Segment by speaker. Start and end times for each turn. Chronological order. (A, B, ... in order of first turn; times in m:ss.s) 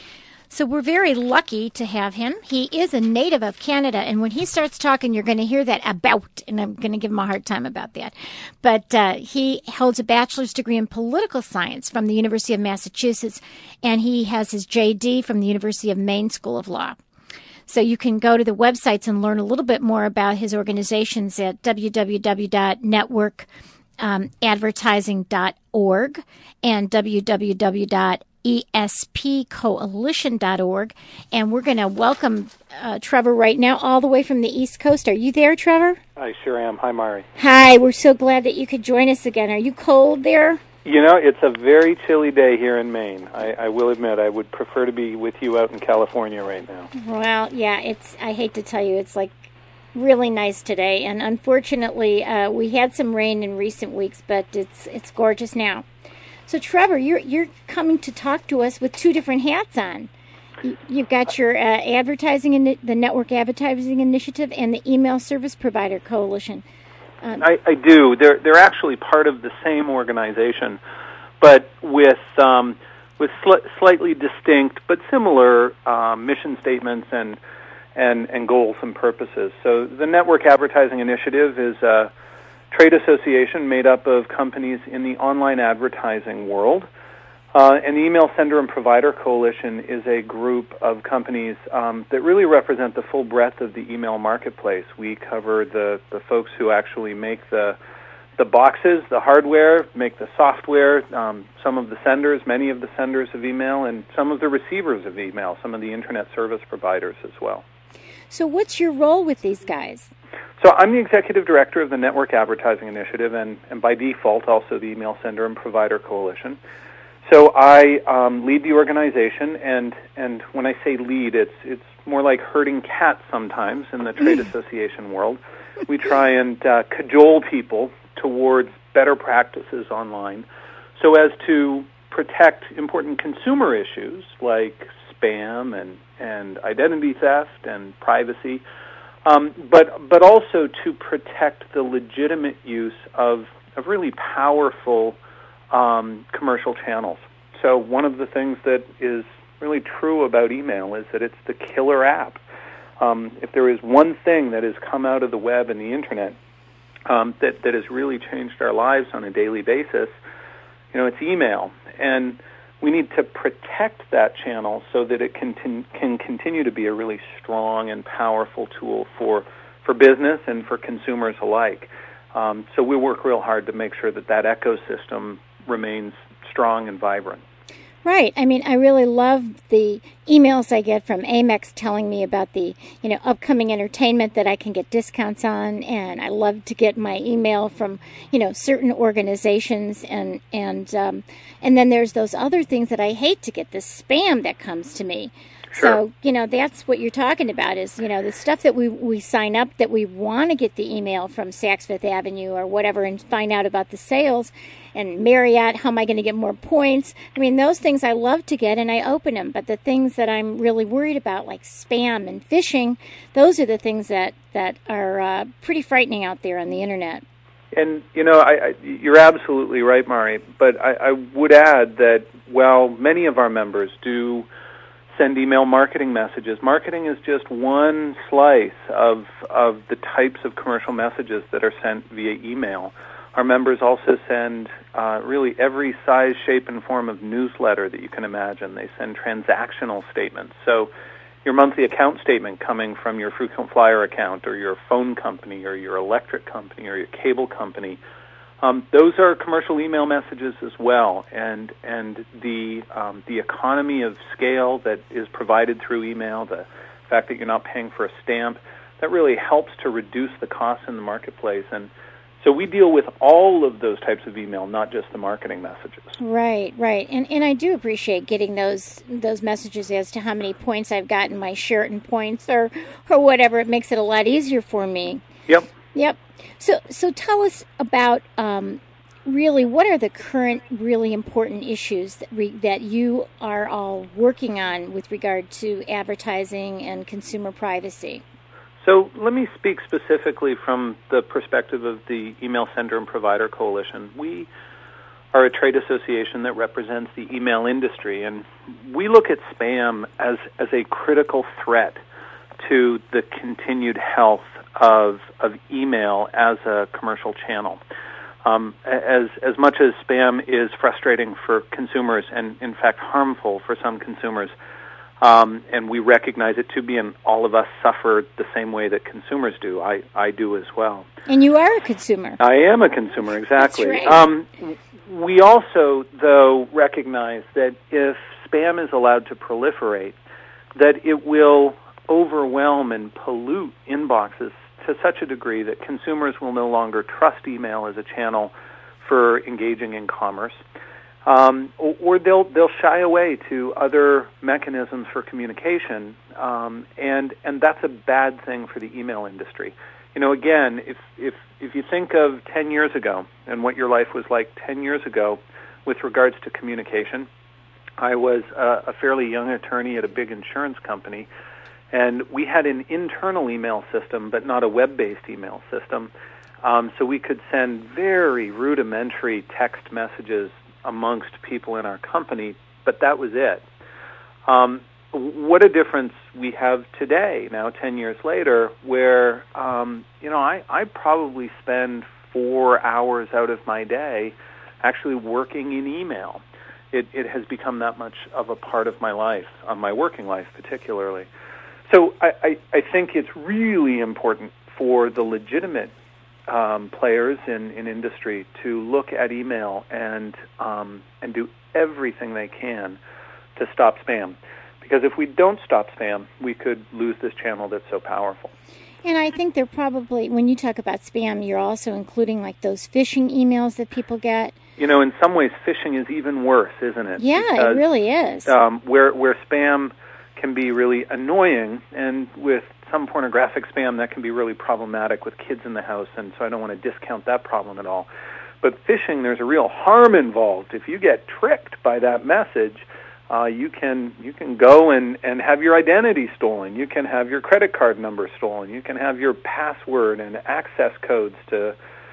0:00.5-0:17.0 A
0:17.7-0:23.5 A
0:24.0-0:36.0 A
0:36.2-0:37.3 B
0:37.4-0:40.6 A
0:40.8-0:46.9 B
0:46.9-0:55.9 A
0:56.5-1:00.1 A
1:00.6-1:06.6 A
1:07.4-1:10.8 B
1:11.4-1:17.4 B
1:18.0-1:22.1 B
1:22.7-1:26.9 B
1:27.5-1:37.8 B
1:38.4-1:47.6 B
1:48.3-1:50.1 A
1:50.6-1:56.6 B
1:57.3-2:10.5 B
2:11.0-2:18.6 B
2:19.2-2:25.2 B
2:25.7-2:32.4 B
2:33.0-2:36.4 B
2:37.1-2:40.1 B
2:40.9-2:57.4 B
2:58.0-3:37.2 A
3:15.7-3:16.0 B
3:37.7-3:44.5 B
3:45.1-4:00.9 B
4:01.4-4:08.0 B
4:08.6-4:21.9 B
4:22.4-4:26.2 B
4:26.2-4:35.2 A
4:35.9-4:48.2 A
4:48.8-4:54.5 B
4:55.3-5:02.0 B
5:02.6-5:07.8 B
5:08.4-5:14.5 B
5:15.2-5:21.1 B
5:21.3-5:22.4 A
5:22.4-5:30.2 B
5:23.6-5:24.2 A
5:30.8-5:40.6 B
5:41.2-5:57.3 B
5:58.0-6:01.3 B
6:01.9-6:06.1 B
6:06.6-6:13.6 B
6:14.5-6:31.3 B
6:31.9-6:35.9 B
6:36.5-6:43.0 B
6:43.6-6:48.5 B
6:49.0-6:54.6 A
6:54.8-6:57.8 B
6:57.2-6:58.5 A
6:58.5-7:08.1 B
7:08.6-7:21.8 B